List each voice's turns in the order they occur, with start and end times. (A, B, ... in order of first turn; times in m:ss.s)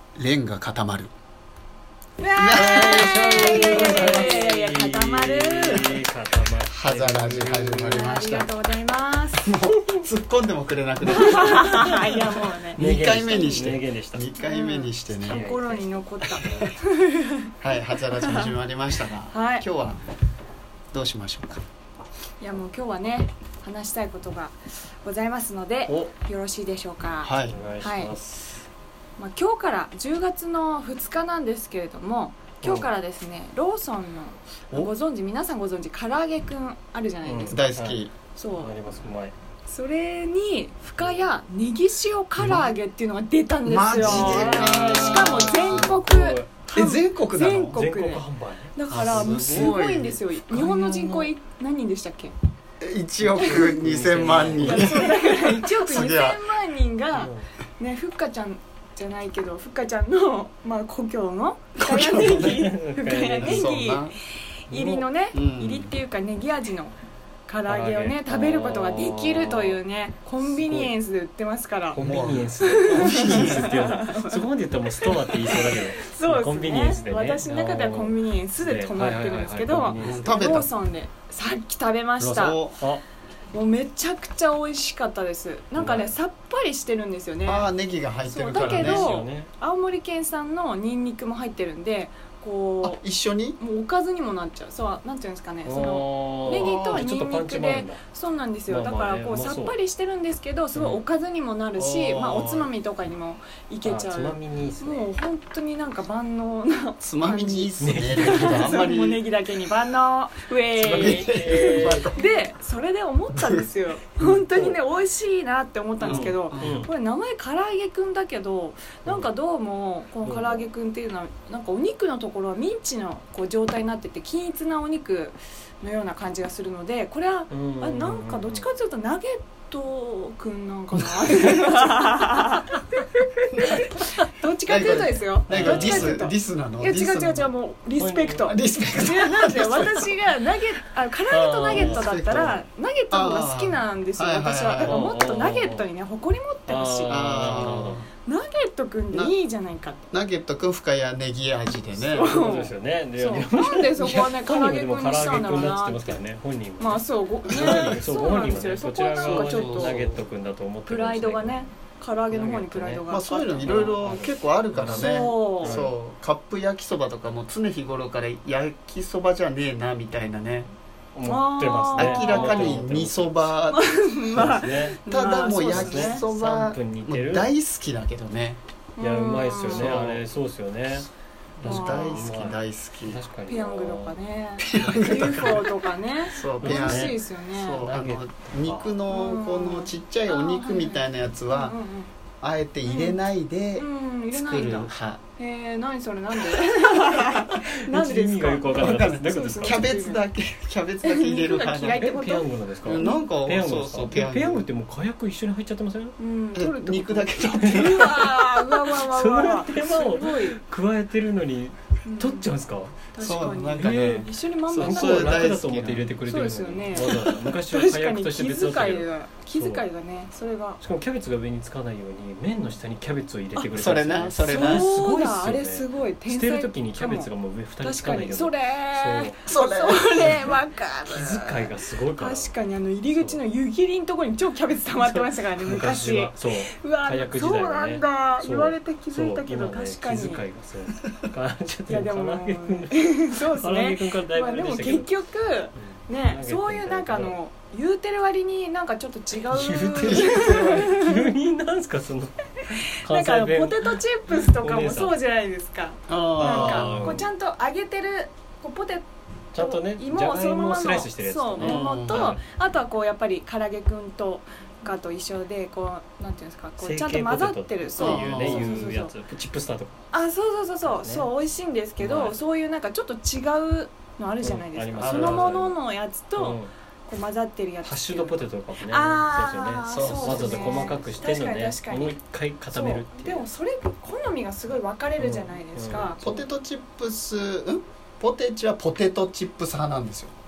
0:00.2-0:01.1 A
0:02.2-0:06.0 B
0:02.4-0:04.4 A
0:02.5-0:08.1 C
0:06.6-0:08.5 A
0:07.8-0:09.5 B
0:09.4-0:15.4 A
0:11.1-0:12.8 B
0:11.6-0:12.2 C
0:12.8-0:14.3 C
0:14.4-0:17.5 B
0:15.2-0:16.7 C
0:16.3-0:16.7 A
0:17.6-0:20.0 A
0:18.2-0:18.5 B
0:19.3-0:19.7 B
0:20.9-0:21.6 A
0:22.4-0:28.2 B
0:25.9-0:26.1 A
0:27.2-0:27.6 A
0:27.5-0:28.6 C
0:29.2-0:37.6 B
0:32.6-0:32.9 C
0:37.2-0:38.0 C
0:37.5-0:38.1 A
0:38.4-0:38.8 B
0:38.6-0:39.3 C
0:39.7-0:52.3 B
0:42.4-0:42.7 A
0:43.6-0:46.0 A
0:44.0-0:46.5 C
0:46.7-0:47.8 A
0:47.7-0:49.8 C
0:48.9-0:50.2 A
0:50.5-0:51.3 C
0:52.8-0:56.4 A
0:53.2-0:55.2 C
0:54.6-1:04.1 B
0:57.1-0:57.5 C
1:01.8-1:02.6 A
1:02.1-1:03.7 C
1:03.4-1:04.2 A
1:04.7-1:05.1 C
1:04.7-1:07.0 B
1:05.3-1:05.9 A
1:07.5-1:12.0 B
1:07.7-1:09.8 C
1:10.4-1:10.9 C
1:11.9-1:20.5 C
1:12.0-1:13.7 A
1:12.6-1:14.5 B
1:15.0-1:22.6 B
1:20.0-1:20.7 A
1:22.2-1:23.0 C
1:22.3-1:22.8 A
1:23.5-1:27.7 B
1:25.8-1:26.1 C
1:27.4-1:29.1 A
1:28.2-1:33.0 B
1:28.5-1:29.5 C
1:32.8-1:33.6 A
1:33.6-2:27.7 B
1:35.6-1:38.0 C
1:36.5-1:37.0 A
1:38.7-1:39.8 C
1:40.8-1:41.0 C
1:41.8-1:42.7 A
1:43.8-1:45.1 C
1:47.0-1:49.2 A
1:47.8-1:48.8 C
1:50.8-1:52.2 C
1:50.8-1:52.2 A
1:53.3-1:53.7 A
1:54.2-1:54.8 C
1:56.0-1:56.9 A
1:56.0-1:56.9 C
2:00.2-2:00.7 C
2:07.5-2:08.7 C
2:11.2-2:11.8 C
2:14.7-2:17.5 A
2:15.5-2:16.2 C
2:18.0-2:18.5 C
2:18.5-2:20.1 A
2:21.3-2:22.6 C
2:21.7-2:22.6 A
2:23.1-2:25.0 A
2:24.8-2:25.9 C
2:26.7-2:28.0 C
2:27.1-2:28.1 A
2:28.2-2:30.1 B
2:30.1-2:32.3 A
2:32.0-2:41.6 C
2:32.1-2:36.2 B
2:36.8-2:40.0 B
2:37.5-2:38.1 A
2:39.2-2:40.2 A
2:40.9-2:44.0 B
2:42.3-2:45.9 C
2:43.1-2:50.7 A
2:44.9-2:45.8 B
2:51.2-2:53.5 C
2:51.2-2:52.8 B
2:52.0-2:58.6 A
2:53.7-2:56.2 B
2:54.3-2:55.0 C
2:55.6-2:57.5 C
2:59.0-3:00.0 B
2:59.0-3:04.2 C
2:59.7-3:00.2 A
3:01.6-3:03.2 A
3:01.6-3:02.3 B
3:03.5-3:07.9 B
3:04.7-3:11.8 A
3:04.7-3:05.6 C
3:06.6-3:07.2 C
3:07.8-3:09.0 C
3:09.1-3:12.1 B
3:12.4-3:15.2 A
3:12.9-3:13.2 B
3:13.8-3:20.3 B
3:17.6-3:19.9 C
3:18.8-3:22.2 A
3:21.0-3:22.5 B
3:21.8-3:26.2 C
3:22.8-3:24.7 A
3:26.2-3:30.6 B
3:26.6-3:28.1 A
3:27.6-3:33.0 C
3:32.0-3:32.5 B
3:33.1-3:35.6 B
3:33.2-3:36.1 A
3:33.8-3:39.9 C
3:36.2-3:40.8 B
3:40.8-3:49.4 C
3:43.7-3:44.9 A
3:44.4-4:00.4 B
3:49.5-3:50.6 A
3:50.2-3:52.5 C
3:53.1-3:53.4 C
3:54.9-4:05.1 C
4:01.9-4:11.2 B
4:05.8-4:07.4 C
4:09.5-4:10.9 A
4:09.5-4:15.1 C
4:12.7-4:29.1 B
4:16.1-4:17.2 A
4:16.4-4:17.3 C
4:19.5-4:22.4 C
4:21.6-4:22.4 A
4:26.8-4:30.0 C
4:28.0-4:28.9 A
4:30.1-4:42.2 B
4:30.8-4:31.3 C
4:32.0-4:32.4 C
4:34.4-4:35.8 C
4:35.0-4:35.6 A
4:36.4-4:36.7 C
4:37.8-4:43.5 C
4:39.9-4:41.0 A
4:42.7-4:46.2 B
4:45.2-4:46.4 C
4:46.2-4:50.3 A